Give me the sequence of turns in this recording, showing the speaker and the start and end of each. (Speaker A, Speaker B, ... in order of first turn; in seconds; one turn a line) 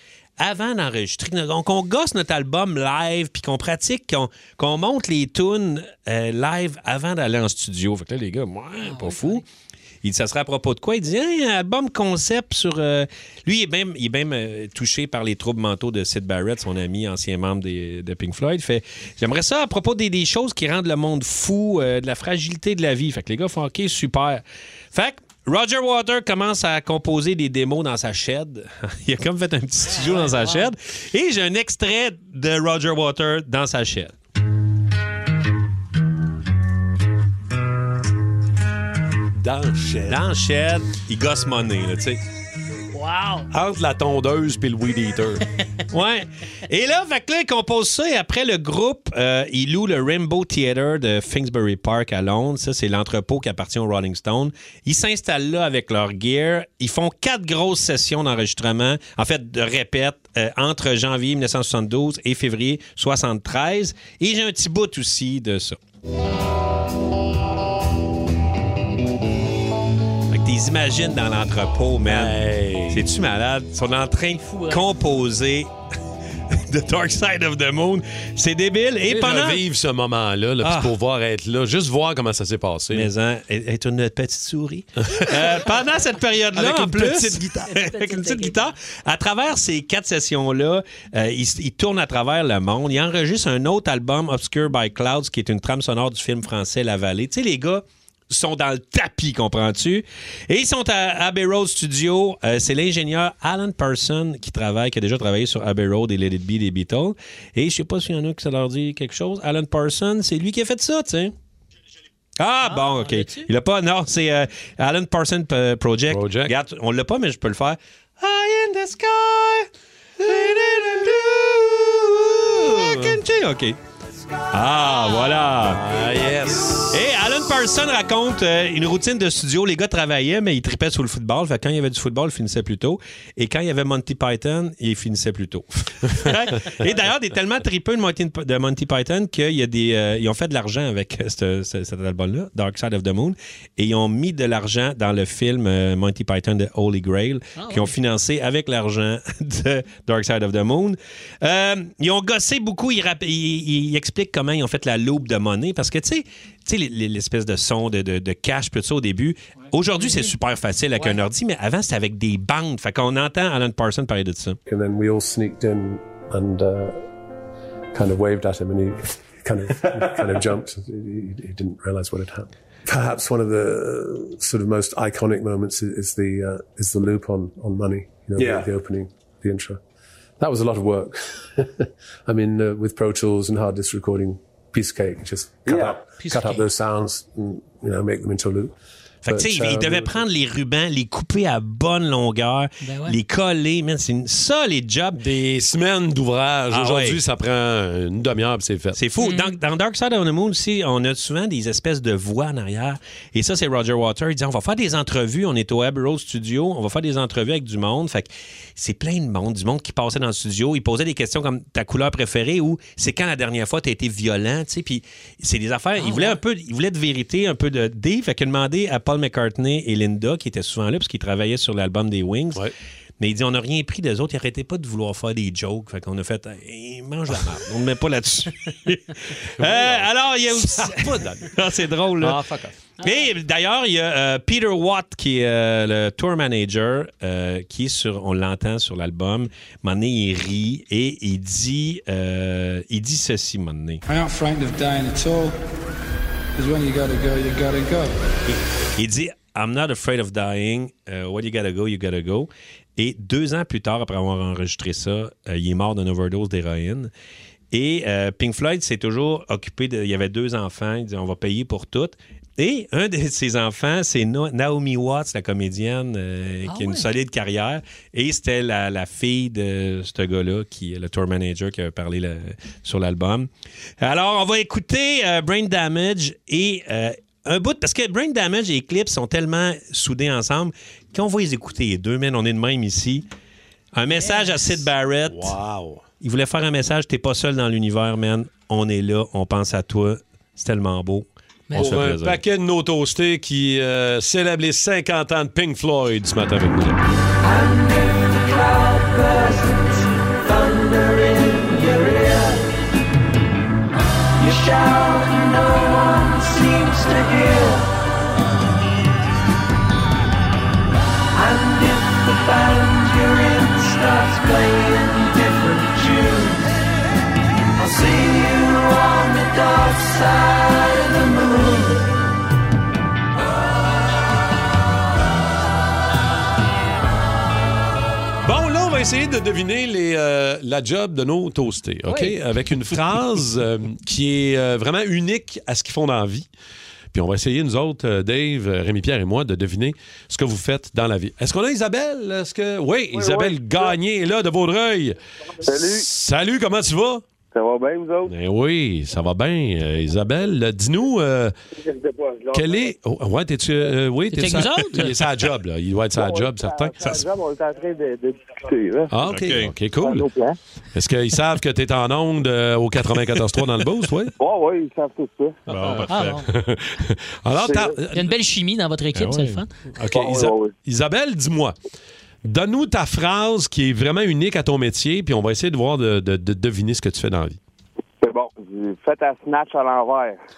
Speaker A: 0.4-9.4
Speaker B: 8.8-9.4
Speaker A: 10.0-34.1
Speaker B: 29.9-30.7
Speaker C: 39.4-40.2
Speaker A: 40.0-42.2
Speaker B: 42.9-43.5
Speaker C: 43.5-45.4
Speaker A: 45.9-65.8
Speaker A: 70.3-72.4
Speaker C: 72.0-73.1
Speaker A: 72.9-75.7
Speaker B: 74.5-74.8
Speaker A: 76.5-79.6
Speaker C: 79.0-83.1
Speaker A: 80.6-80.9
Speaker A: 82.9-111.3
Speaker C: 85.0-85.7
Speaker C: 86.5-87.7
Speaker B: 87.7-88.7
Speaker A: 112.4-119.7
Speaker B: 112.6-113.5
Speaker C: 116.1-116.5
Speaker C: 120.2-123.2
Speaker A: 120.2-123.8
Speaker A: 124.5-125.8
Speaker C: 125.6-127.1
Speaker A: 126.9-164.6
Speaker B: 147.6-147.9
Speaker D: 164.7-167.1
Speaker D: 167.9-179.8
Speaker D: 180.4-188.7
Speaker B: 186.2-186.7
Speaker D: 189.2-190.2
Speaker A: 189.2-195.2
Speaker B: 192.8-193.2
Speaker C: 195.2-199.0
Speaker A: 196.7-197.2
Speaker A: 199.0-222.7
Speaker B: 199.2-199.5
Speaker B: 216.0-216.4
Speaker A: 223.2-232.5
Speaker C: 229.6-231.6
Speaker C: 232.2-232.8
Speaker A: 233.0-244.0
Speaker E: 244.1-245.6
Speaker E: 246.6-248.2
Speaker A: 248.5-257.1
Speaker A: 257.7-273.5
Speaker B: 266.7-267.1
Speaker A: 274.0-283.2
Speaker A: 283.9-285.5
Speaker B: 284.1-284.6
Speaker C: 285.3-286.0
Speaker A: 286.2-292.4
Speaker B: 291.7-292.0
Speaker C: 291.7-297.0
Speaker F: 297.4-302.7
Speaker F: 304.4-307.9
Speaker F: 311.3-316.7
Speaker F: 317.8-322.0
Speaker C: 328.4-336.5
Speaker B: 332.1-332.3
Speaker C: 337.1-347.2
Speaker G: 343.1-343.9
Speaker G: 345.6-346.1
Speaker G: 347.5-348.3
Speaker C: 348.3-351.6
Speaker G: 351.8-352.9
Speaker C: 352.5-357.0
Speaker B: 354.3-355.1
Speaker G: 356.2-359.1
Speaker C: 359.1-360.3
Speaker A: 359.3-359.7
Speaker G: 360.0-360.6
Speaker C: 360.9-364.3
Speaker G: 364.4-365.6
Speaker A: 365.7-366.4
Speaker C: 365.9-368.3
Speaker B: 366.1-366.5
Speaker G: 367.6-368.0
Speaker B: 368.1-369.7
Speaker A: 369.1-370.2
Speaker C: 370.0-371.8
Speaker G: 370.1-370.7
Speaker C: 372.4-377.6
Speaker G: 378.2-380.4